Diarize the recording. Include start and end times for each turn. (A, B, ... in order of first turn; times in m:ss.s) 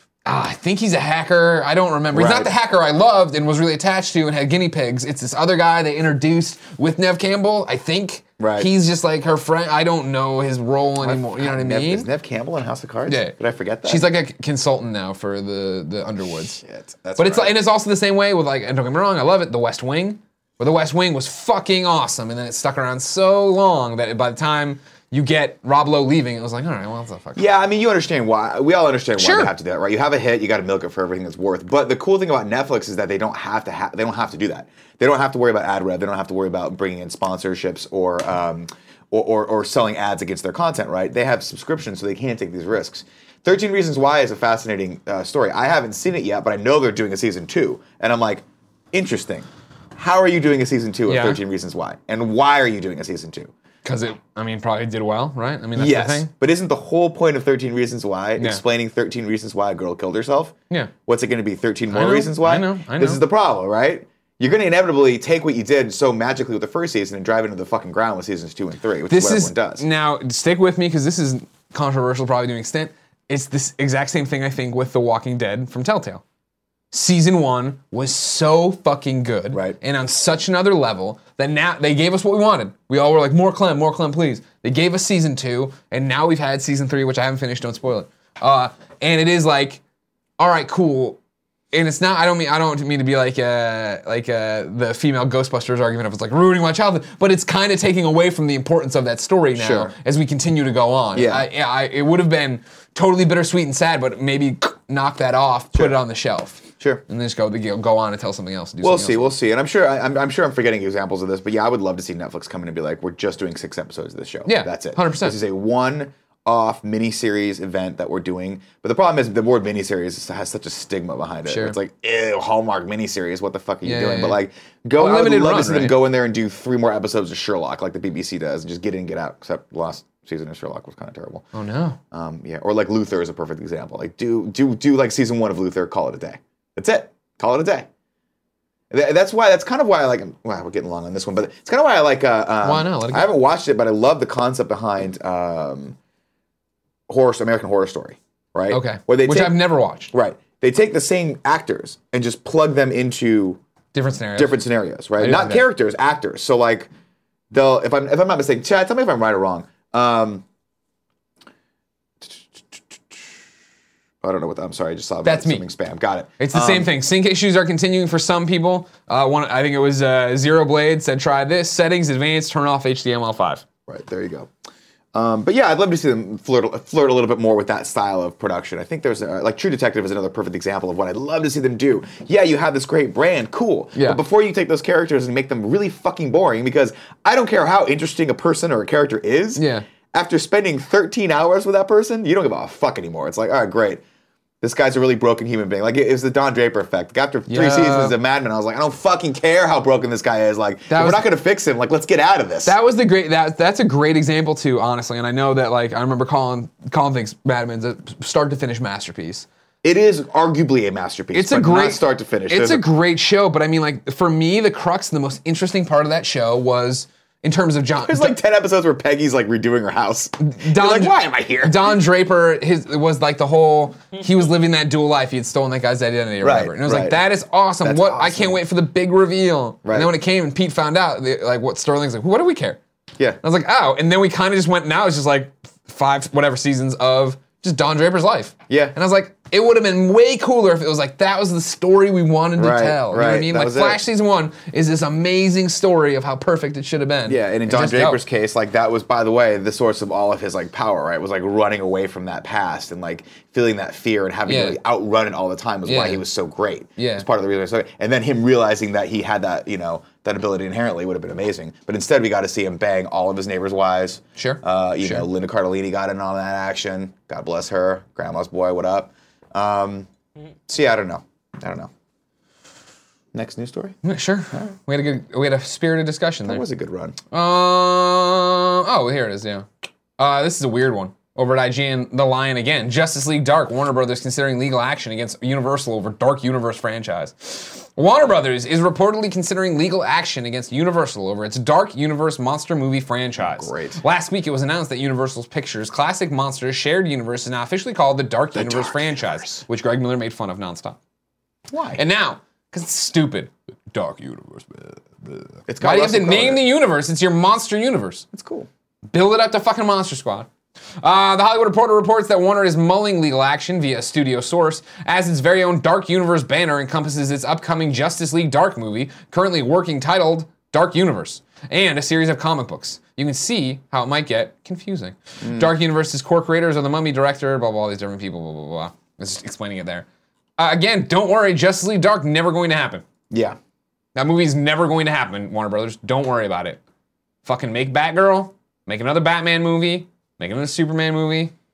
0:00.2-0:12.1 A
0:02.1-0:02.5 B
0:08.4-0:08.7 B
0:11.0-0:14.1 B
0:13.1-0:16.6 A
0:16.6-0:17.6 B
0:17.2-0:27.4 A
0:27.4-0:53.5 B
0:29.2-0:29.5 A
0:51.1-0:51.4 A
0:53.8-0:56.3 A
0:55.7-1:09.8 B
1:01.9-1:03.2 A
1:09.1-1:16.2 A
1:16.9-1:29.8 A
1:19.5-1:19.8 B
1:30.4-1:31.2 A
1:31.7-1:49.3 A
1:39.6-1:39.9 B
1:41.1-1:41.5 B
1:46.8-1:47.0 B
1:48.8-2:11.4 B
1:54.4-1:55.4 A
2:01.5-2:01.8 A
2:03.8-2:04.4 A
2:05.0-2:06.0 A
2:11.5-2:12.0 A
2:12.1-2:17.9 B
2:18.9-2:26.0 B
2:22.6-2:23.3 A
2:27.1-2:33.6 B
2:28.7-2:30.1 A
2:33.9-2:34.6 A
2:34.3-2:36.9 B
2:35.2-2:35.6 A
2:37.5-2:40.4 B
2:42.2-2:43.2 B
2:44.2-2:46.9 B
2:45.2-2:45.6 A
2:46.4-2:53.6 A
2:53.9-2:54.5 B
2:55.1-3:14.0 B
3:03.9-3:04.2 A
3:09.5-3:09.8 A
3:14.6-3:22.8 B
3:17.5-3:18.2 A
3:20.9-3:21.2 A
3:22.6-3:29.4 A
3:29.8-3:32.9 B
3:31.3-3:38.4 A
3:38.0-3:42.0 B
3:40.4-3:52.8 A
3:46.4-3:47.2 B
3:47.8-3:48.6 B
3:49.8-3:50.1 B
3:53.4-4:08.2 A
3:58.7-3:59.0 B
4:02.6-4:04.0 B
4:07.3-4:30.1 B
4:14.4-4:14.8 A
4:15.8-4:16.2 A
4:17.0-4:17.2 A
4:24.4-4:25.3 A
4:30.7-4:31.9 B
4:33.3-4:34.0 B
4:34.0-4:36.6 A
4:36.4-4:37.2 B
4:37.3-4:39.6 A
4:40.2-5:01.0 A
4:53.4-4:54.0 B
4:58.5-4:59.6 B
5:01.7-5:02.0 B
5:02.0-5:08.2 A
5:05.7-5:06.6 B
5:08.3-5:08.7 B
5:09.1-5:10.5 A
5:11.0-5:30.0 A
5:25.4-5:25.7 B
5:30.6-5:33.0 A
5:33.3-5:33.6 B
5:34.1-5:36.8 A
5:37.4-5:41.5 A